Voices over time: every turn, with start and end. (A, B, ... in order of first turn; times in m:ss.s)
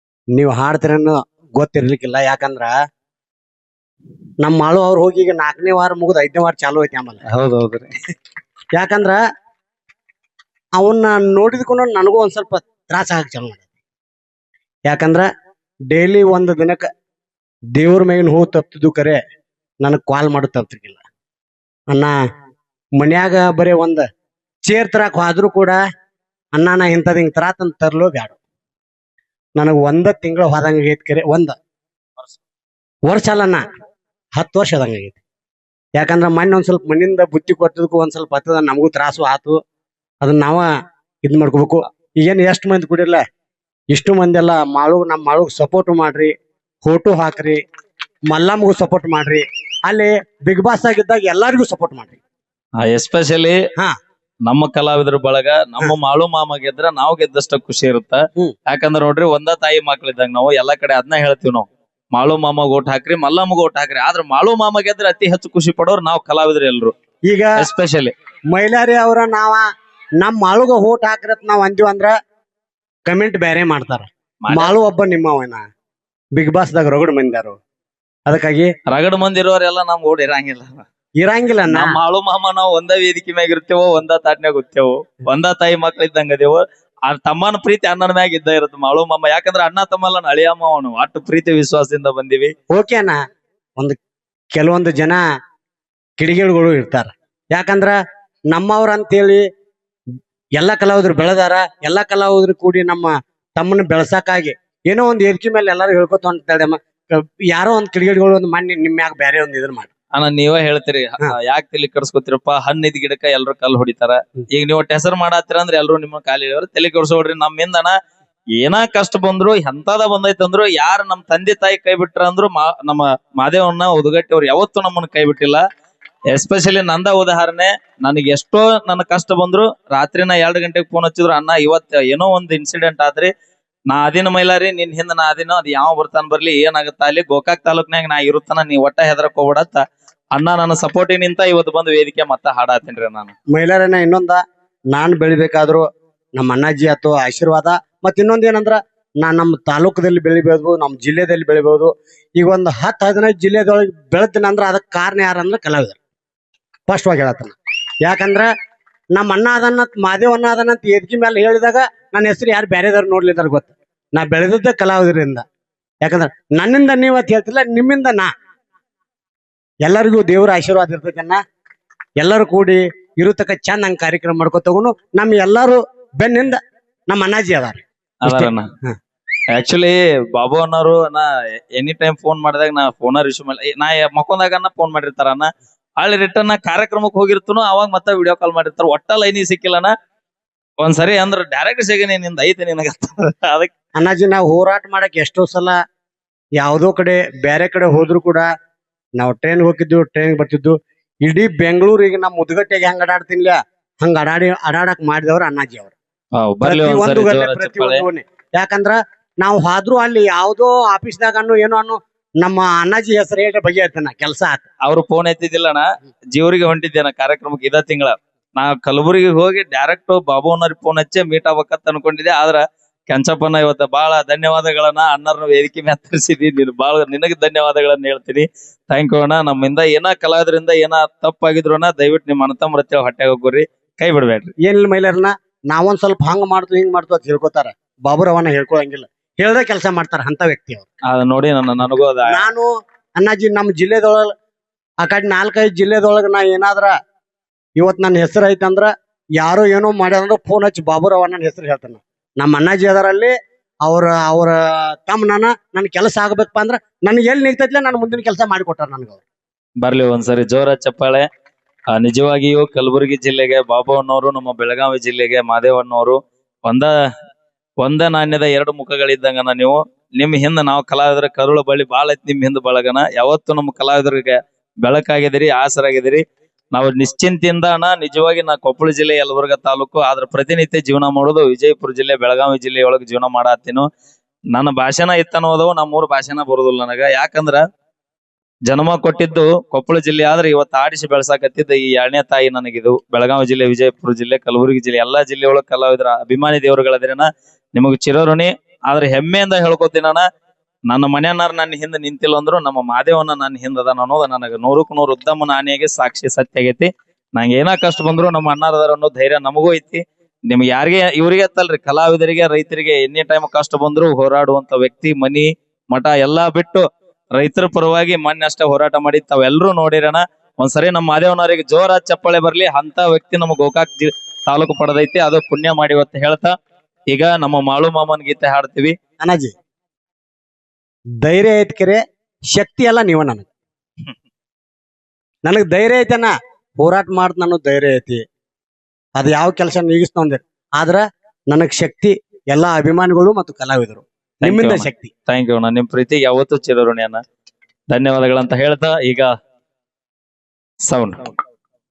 0:00.3-0:02.7 A
0:04.4-0:07.2 A
0:07.2-0:07.9 B
0:08.7-0:09.2 A
0:10.8-0:13.6 A
0:14.9-0:15.2 A
0:15.9-0:16.8 A
0:17.8-0:19.2 A
0:19.8-0:21.0 A
0:21.9-0:22.1 A
0:23.0-0:24.0 A
0:24.6-0:25.8 A
0:26.5-0:28.4 A
0:29.6-0:31.5 A
0:33.1-0:33.6 A
0:34.4-0:35.2 A
0:36.0-0:39.6 A
0:40.2-0:40.7 A
0:41.2-0:43.2 A
0:43.9-0:46.3 A
0:46.8-0:47.6 A
0:48.3-0:52.2 A
0:52.8-0:53.6 B
0:54.4-1:06.9 B
1:07.3-1:07.6 A
1:07.6-1:08.1 B
1:08.5-1:09.6 A
1:10.2-1:12.1 A
1:13.1-1:15.6 A
1:14.4-1:14.7 B
1:16.4-1:17.6 A
1:18.3-1:18.7 A
1:18.9-1:20.8 B
1:21.2-1:22.0 A
1:21.7-1:32.5 B
1:32.7-1:33.2 A
1:34.5-1:35.2 A
1:36.2-1:37.9 A
1:38.5-1:39.4 A
1:40.6-1:49.9 A
1:50.1-1:57.9 B
1:58.6-2:05.6 B
2:06.3-2:13.3 B
2:13.9-2:19.8 B
2:20.3-2:23.3 B
2:23.5-2:24.4 A
2:24.9-2:25.8 A
2:26.4-2:36.0 A
2:36.9-2:38.5 A
2:39.1-2:45.4 A
2:46.0-2:48.3 A
2:49.8-2:51.4 A
2:52.2-2:58.9 A
2:58.2-2:58.6 B
2:59.5-3:05.4 B
3:06.0-3:09.9 B
3:10.8-3:13.7 B
3:14.0-3:15.7 A
3:16.6-3:18.4 A
3:19.2-3:25.9 A
3:26.4-3:28.0 B
3:26.6-3:34.6 A
3:34.8-3:54.5 B
3:54.6-4:00.9 A
4:01.1-4:02.5 B
4:02.3-4:02.7 A
4:03.2-4:04.3 A
4:05.0-4:06.9 A
4:07.8-4:13.3 A
4:13.8-4:19.2 A
4:19.8-4:21.2 B
4:21.9-4:26.9 B
4:27.8-4:36.2 B
4:36.7-4:43.8 B
4:44.5-4:47.6 B
4:48.7-5:00.2 B
5:00.9-5:16.8 B
5:17.3-5:26.5 B
5:27.1-5:28.9 B
5:29.2-5:29.5 A
5:31.2-5:32.0 A
5:32.5-5:33.5 A
5:35.4-5:38.2 A
5:39.2-5:45.1 A
5:44.4-5:47.2 B
5:47.9-5:49.3 B
5:50.9-5:51.3 B